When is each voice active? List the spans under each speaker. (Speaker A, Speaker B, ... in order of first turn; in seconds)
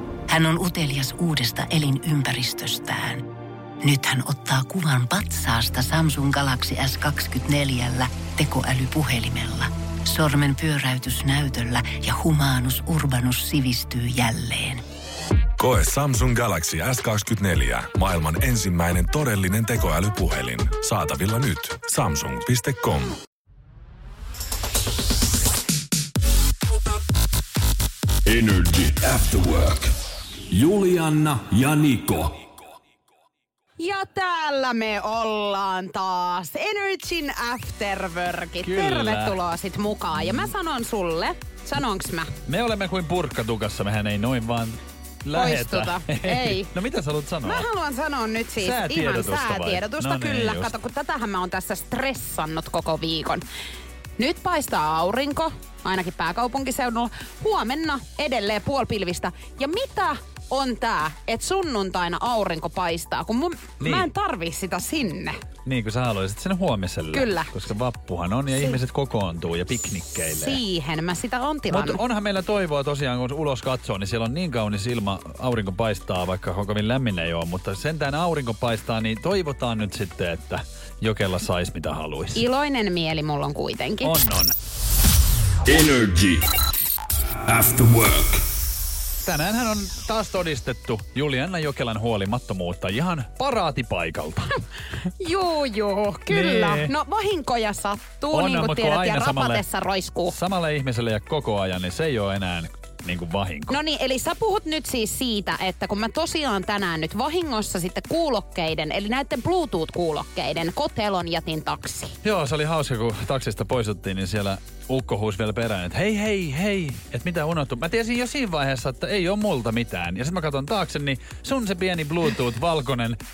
Speaker A: 0.3-3.3, 3.8-14.8
Speaker B: 15.6-23.1
Speaker C: 28.2-29.9, 30.5-32.5, 85.7-86.4, 87.5-88.4
Speaker D: 33.8-42.3, 45.3-46.7, 47.4-53.4, 54.2-65.3, 67.1-67.5, 68.5-68.8, 70.3-72.0, 82.3-84.1, 95.2-100.3, 103.7-112.2
Speaker E: 38.6-39.4, 42.5-47.7, 48.6-50.7, 63.8-64.1, 65.7-70.6, 71.7-82.4, 84.0-84.5, 89.2-94.5, 96.3-96.9, 98.3-99.6, 100.3-103.8, 112.2-123.2